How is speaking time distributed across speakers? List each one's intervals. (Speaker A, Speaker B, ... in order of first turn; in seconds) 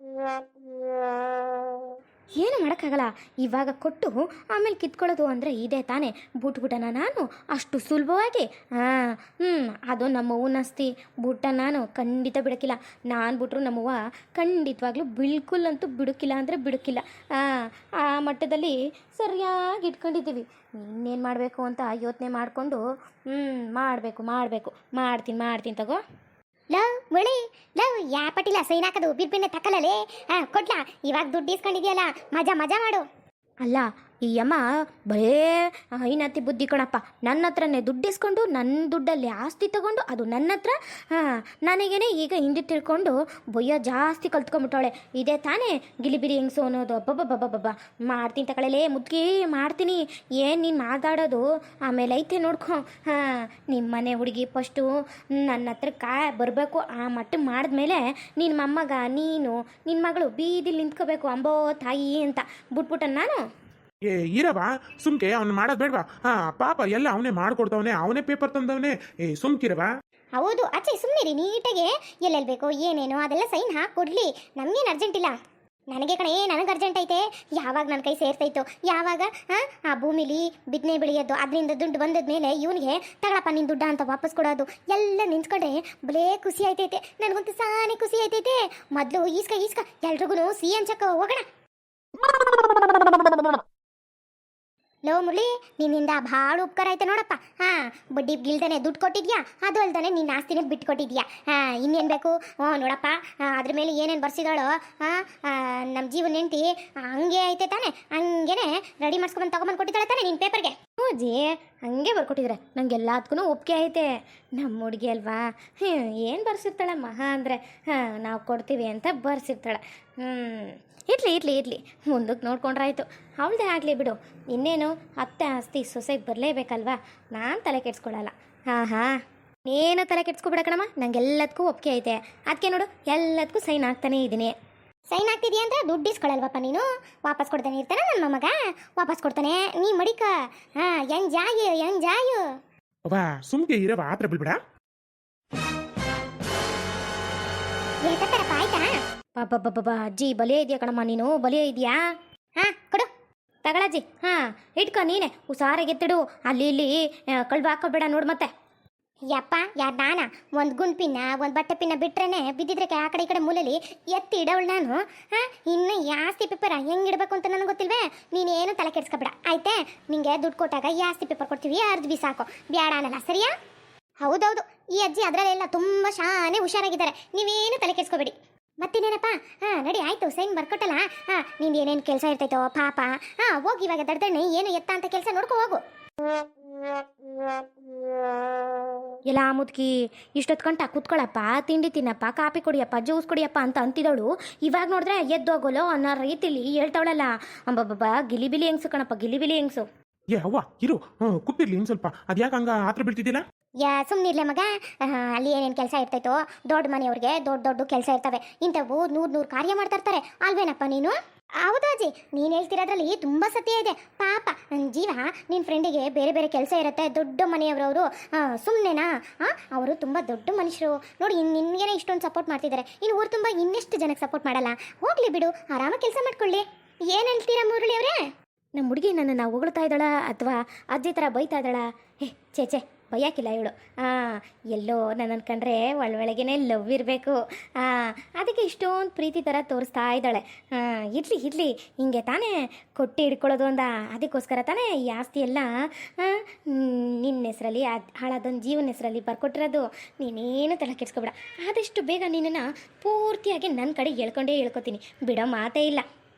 Speaker A: 2.4-17.5, 18.0-26.0, 33.6-54.9, 55.4-63.4, 111.1-114.0, 114.6-129.1, 129.7-134.5, 149.4-152.0, 153.7-156.9, 157.4-158.5, 189.3-199.8, 228.8-245.7, 246.2-256.0
Speaker B: 26.7-33.0, 70.4-75.3, 75.9-91.5, 95.1-110.8, 135.1-142.4, 148.1-148.9, 152.6-153.1, 159.3-173.5, 174.2-185.8, 203.8-228.2
Speaker C: 64.1-69.9, 143.1-144.6, 200.3-203.4